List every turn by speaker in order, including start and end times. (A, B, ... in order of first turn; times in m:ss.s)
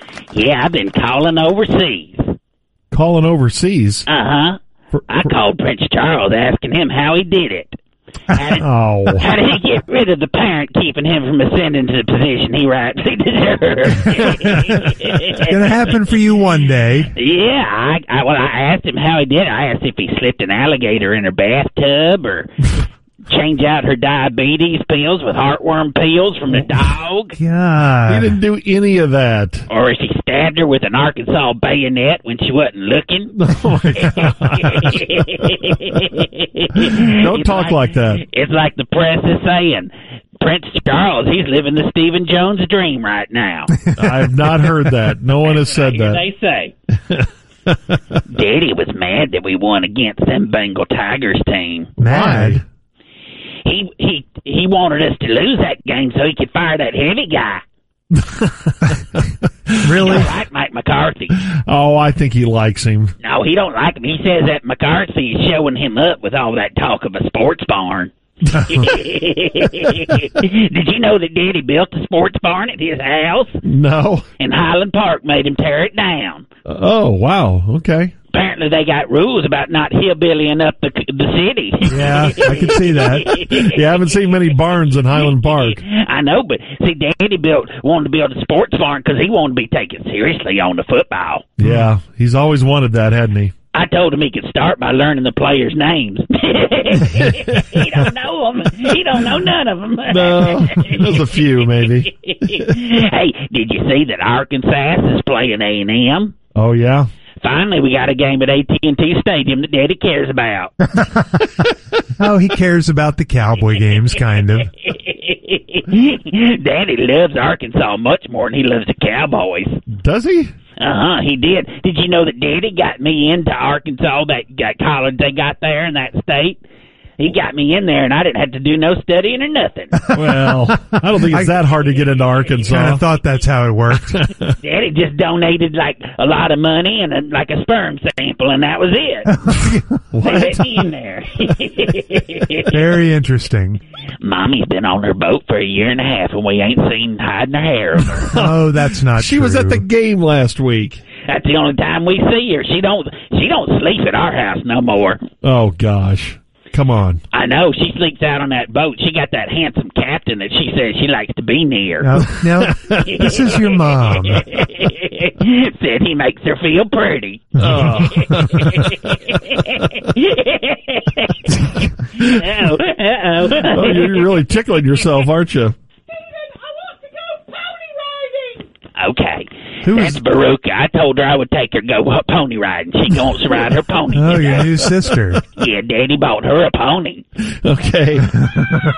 0:00.3-0:02.3 A
0:02.9-0:04.1 B
0:04.1-0:04.6 A
0:05.1-0:07.8 A
0:08.3-0:15.8 A
0:08.6-0:09.3 B
0:14.1-0:14.8 C
0:15.4-0:17.1 C
0:17.1-0:27.4 A
0:27.4-0:28.4 C
0:28.1-0:29.7 B
0:29.7-0:33.4 A
0:33.3-0:35.0 B
0:33.9-0:43.7 A
0:37.0-0:38.2 B
0:44.0-0:46.2 B
0:45.4-0:46.7 A
0:47.0-0:48.2 B
0:48.3-0:51.9 A
0:52.0-0:52.6 B
0:52.0-0:52.6 C
0:53.6-0:57.6 A
0:58.1-1:00.0 B
0:59.8-1:00.3 C
1:00.0-1:01.4 A
1:01.4-1:03.1 B
1:03.2-1:13.6 A
1:13.6-1:14.2 B
1:14.4-1:16.5 A
1:16.6-1:18.1 B
1:18.3-1:23.8 A
1:21.9-1:23.3 C
1:23.3-1:25.8 B
1:25.3-1:31.5 A
1:31.6-1:33.5 B
1:33.7-1:46.3 A
1:40.1-1:42.7 B
1:46.5-1:47.1 B
1:47.4-1:50.7 A
1:51.0-1:51.2 C
1:52.2-1:54.7 C
1:54.8-1:59.8 A
1:59.9-2:00.5 B
2:00.8-2:06.6 A
2:07.2-2:10.0 A
2:10.1-2:10.5 C
2:10.1-2:13.0 B
2:11.3-2:11.6 C
2:12.7-2:14.2 C
2:14.1-2:14.5 B
2:14.6-2:19.3 A
2:19.3-2:19.8 C
2:20.1-2:20.6 B
2:20.2-2:23.0 A
2:22.7-2:23.8 C
2:24.2-2:28.3 A
2:28.0-2:31.0 B
2:28.3-2:29.8 C
2:31.3-2:35.2 A
2:35.4-2:37.2 B
2:37.3-2:42.2 A
2:42.0-2:44.4 C
2:42.4-2:43.1 B
2:43.1-2:43.6 A
2:44.1-2:51.5 A
2:47.6-2:49.2 B
2:51.5-2:51.8 C
2:52.1-2:54.4 A
2:52.2-2:52.8 B
2:53.5-2:55.7 B
2:57.3-3:04.9 A
2:59.8-3:00.2 C
3:04.1-3:05.4 C
3:05.5-3:07.2 A
3:07.4-3:08.6 B